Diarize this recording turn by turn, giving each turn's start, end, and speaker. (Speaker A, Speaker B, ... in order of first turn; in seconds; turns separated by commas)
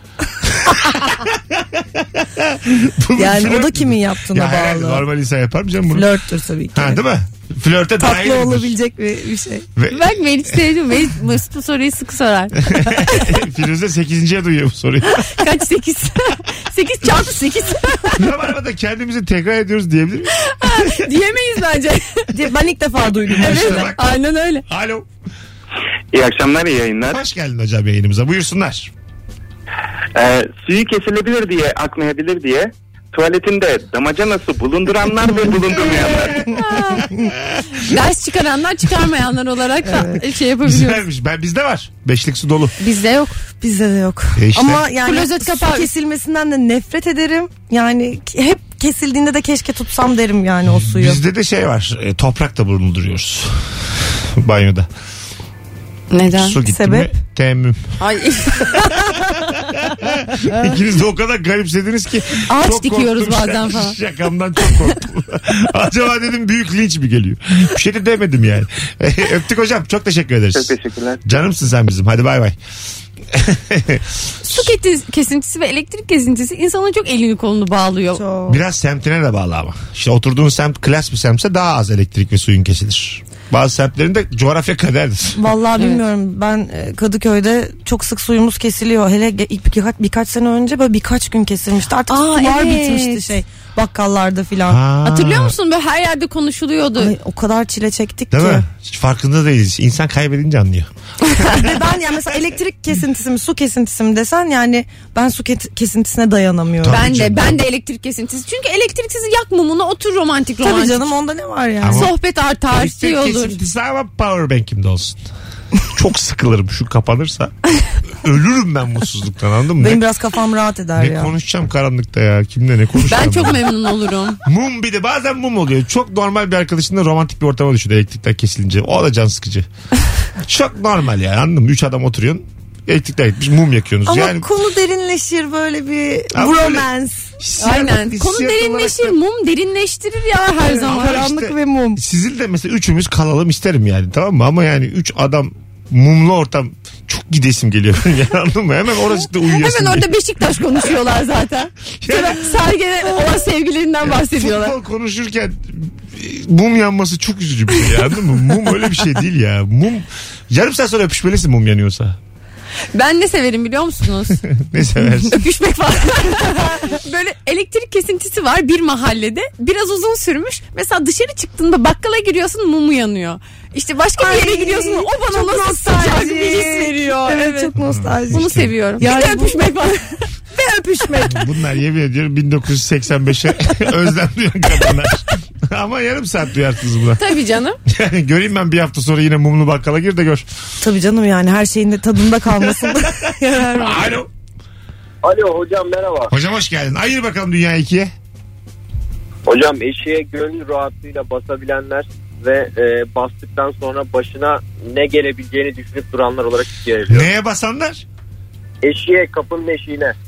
Speaker A: 0.4-6.1, Speaker B: 3.2-5.0, Speaker B: 5.9-7.0, Speaker A: 6.7-8.8, Speaker B: 8.0-9.7, Speaker A: 9.8-10.6, Speaker C: 9.9-12.9, Speaker A: 12.6-15.4, Speaker C: 15.1-18.2, Speaker A: 18.2-21.1, Speaker C: 20.4-22.4, Speaker B: 22.3-23.9, Speaker A: 23.3-25.1, Speaker C: 23.4-24.6, Speaker D: 26.1-27.2, Speaker A: 27.1-28.9, Speaker D: 30.1-36.4, Speaker A: 35.9-37.8, Speaker B: 36.5-37.3, Speaker C: 36.5-37.0, Speaker C: 37.7-41.0, Speaker B: 39.8-40.2, Speaker A: 40.6-42.7, Speaker C: 42.8-43.4, Speaker B: 43.6-51.2, Speaker A: 44.4-44.9, Speaker C: 45.0-45.9, Speaker A: 50.7-54.9, Speaker C: 56.1-56.6, Speaker A: 56.3-57.9, Speaker B: 56.6-57.1, Speaker C: 58.0-58.9, Speaker A: 58.7-72.6, Speaker C: 62.5-64.0, Speaker D: 70.6-71.2, Speaker A: 73.3-74.7, Speaker C: 74.4-78.2, Speaker B: 78.2-78.6, Speaker A: 78.5-85.5, Speaker B: 85.4-94.8, Speaker C: 92.1-93.3, Speaker A: 94.7-95.6, Speaker C: 95.0-97.1, Speaker B: 97.0-98.7, Speaker A: 98.3-100.9, Speaker C: 101.3-101.6, Speaker B: 101.5-107.1, Speaker A: 106.8-107.6, Speaker C: 106.9-111.1, Speaker B: 110.6-112.1, Speaker A: 111.8-112.1, Speaker C: 111.9-113.6, Speaker A: 112.7-115.3, Speaker A: 115.9-117.5, Speaker A: 118.1-120.0, Speaker B: 119.8-121.3, Speaker A: 121.0-123.6, Speaker C: 123.1-124.4, Speaker A: 124.4-129.7, Speaker A: 130.4-134.5, Speaker B: 134.1-137.3, Speaker A: 136.3-136.9, Speaker A: 137.4-139.2, Speaker C: 137.6-141.3, Speaker B: 140.6-142.0, Speaker A: 140.8-150.1, Speaker C: 149.5-154.8, Speaker A: 152.0-152.5, Speaker A: 154.0-162.2, Speaker C: 162.9-164.4, Speaker A: 164.5-165.4, Speaker C: 165.2-177.7, Speaker B: 174.2-179.8, Speaker A: 177.8-178.7, Speaker C: 178.3-180.1, Speaker B: 180.5-181.4, Speaker A: 181.3-187.2, Speaker C: 187.2-187.8, Speaker A: 187.9-190.5, Speaker B: 190.8-194.2, Speaker A: 192.6-193.1, Speaker A: 193.7-194.3, Speaker E: 195.2-196.3, Speaker A: 196.3-198.1, Speaker E: 199.5-207.3, Speaker A: 207.1-208.0, Speaker E: 208.8-210.1